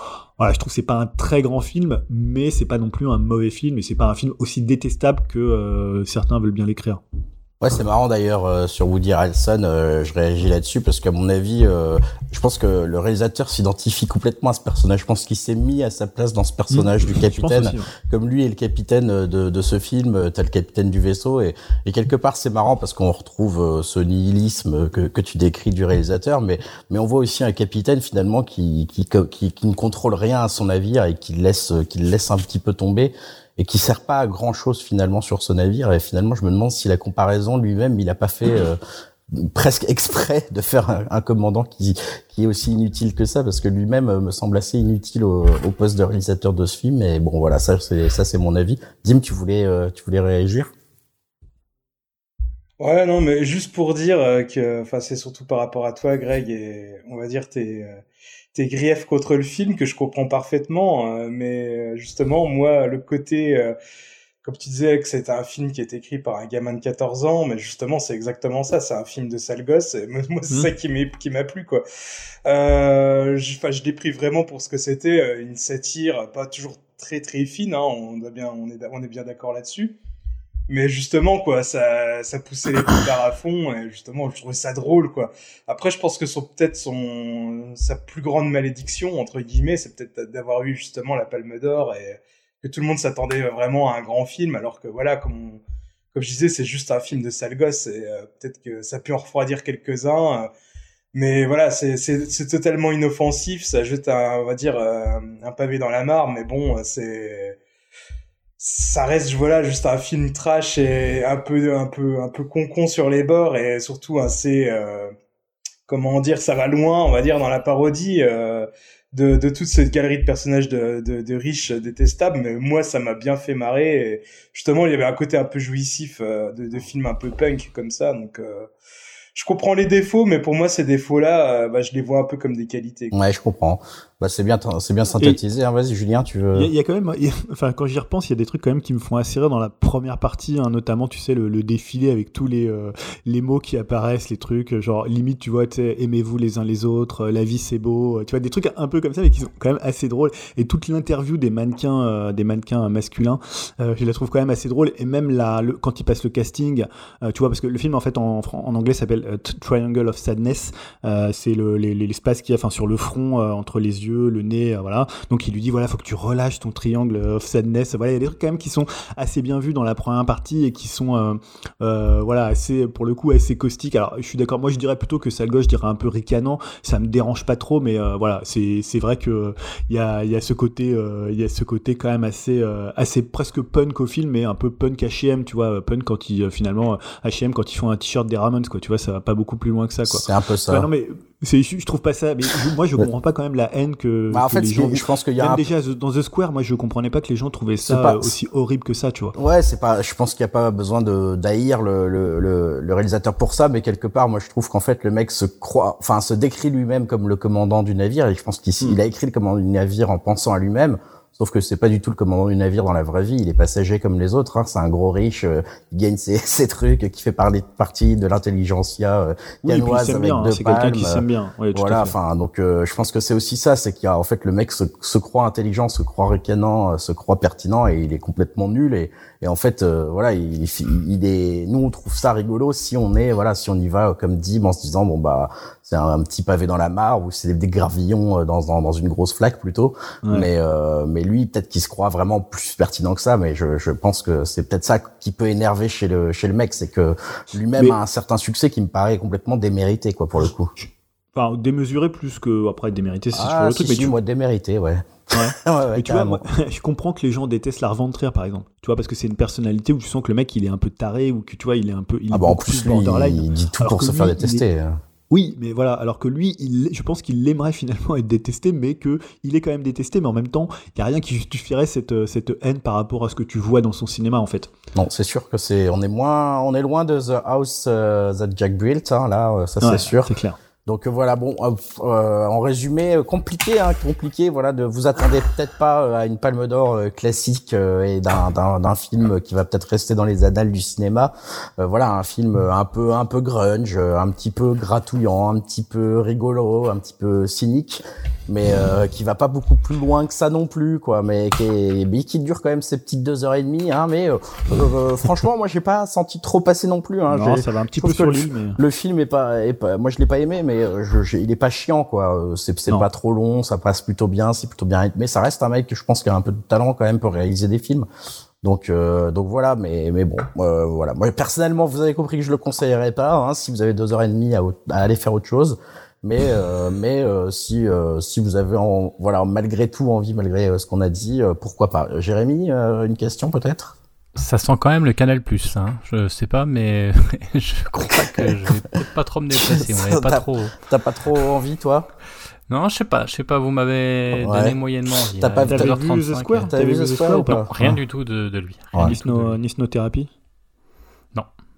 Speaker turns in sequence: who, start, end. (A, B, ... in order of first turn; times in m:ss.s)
0:00.4-0:07.0 A
0:07.6-0:38.8 B
0:16.7-0:17.9 A
0:39.3-0:50.7 B
0:52.8-0:58.0 C
0:58.5-1:03.8 C
1:04.4-1:11.8 C
1:12.5-1:20.0 C
1:20.7-1:35.6 C
1:36.1-1:40.5 C
1:41.1-1:47.6 C
1:48.6-1:55.1 C
1:55.9-2:08.7 C
2:09.4-2:13.1 C
2:13.1-2:16.7 B
2:16.5-3:19.3 A
3:10.1-3:10.9 B
3:14.3-3:15.7 B
3:17.9-3:18.3 B
3:19.4-4:10.7 B
3:39.6-3:42.1 A
4:00.2-4:00.5 A
4:10.8-4:14.1 A
4:13.3-4:16.4 B
4:15.3-4:24.6 A
4:22.3-4:25.0 B
4:25.3-4:34.7 A
4:35.0-4:40.3 B
4:39.8-4:40.6 A
4:40.8-5:18.1 B
5:07.3-5:08.8 A
5:18.6-5:34.0 B
5:34.4-5:40.8 D
5:38.2-5:38.5 B
5:39.5-5:42.1 B
5:42.7-5:46.7 D
5:44.4-5:44.8 B
5:45.4-5:46.0 B
5:45.7-5:48.0 A
5:46.7-5:47.7 B
5:47.7-5:49.6 D
5:49.0-5:50.3 A